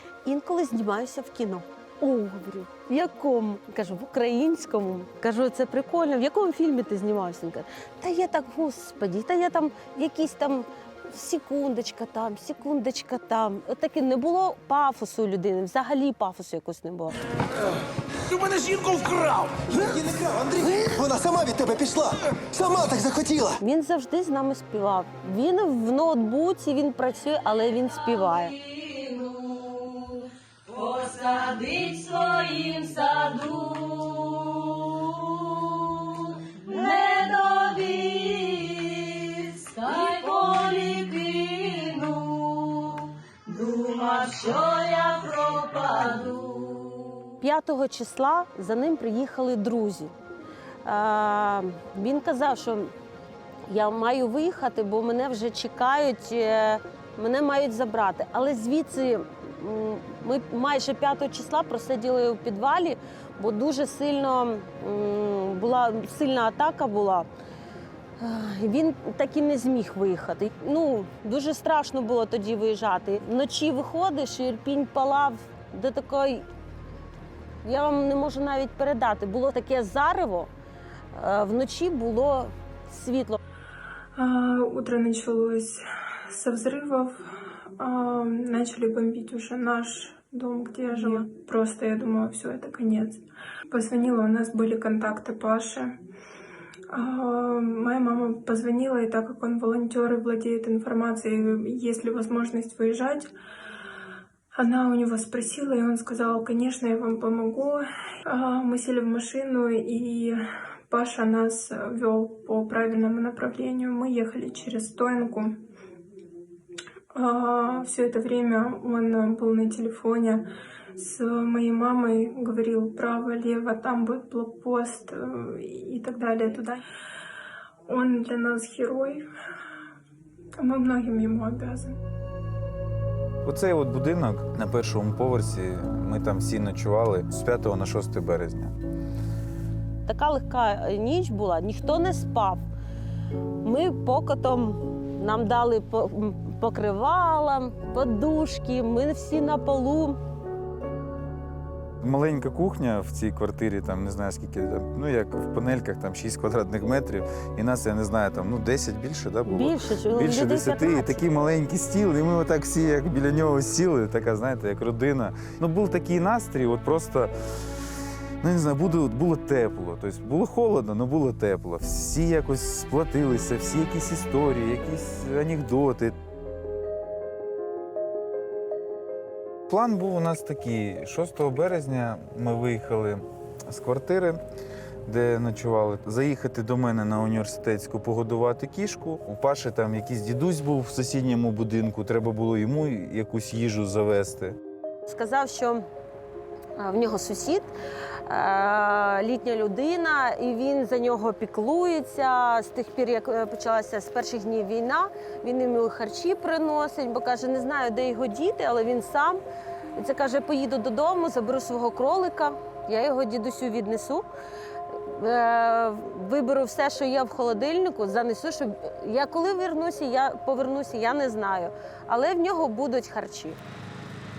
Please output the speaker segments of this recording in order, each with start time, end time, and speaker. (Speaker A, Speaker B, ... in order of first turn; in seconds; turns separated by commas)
Speaker A: 0.2-17.1, Speaker B: 18.3-23.6, Speaker A: 23.6-28.5, Speaker C: 28.6-29.8, Speaker C: 30.8-34.6, Speaker C: 36.7-42.9, Speaker C: 43.5-46.8, Speaker A: 47.4-50.1, Speaker A: 50.8-52.9, Speaker A: 53.6-67.3, Speaker A: 68.2-76.4, Speaker A: 77.6-80.5, Speaker A: 81.1-83.4, Speaker D: 84.2-85.8, Speaker D: 86.3-87.1, Speaker D: 87.8-93.2, Speaker D: 93.7-95.9, Speaker D: 96.9-103.3, Speaker D: 104.5-110.3, Speaker D: 110.9-115.5, Speaker D: 117.1-120.4, Speaker D: 121.0-126.8, Speaker D: 127.9-129.2, Speaker D: 130.6-131.9, Speaker E: 133.4-138.7, Speaker A: 140.1-142.6, Speaker A: 143.6-150.2, Speaker E: 152.0-167.3, Speaker A: 159.4-161.2, Speaker E: 168.4-176.2, Speaker E: 179.7-184.4, Speaker E: 185.1-194.6, Speaker A: 195.1-195.8, Speaker A: 196.8-197.7, Speaker A: 198.3-209.4, Speaker A: 209.9-214.2, Speaker A: 215.1-223.6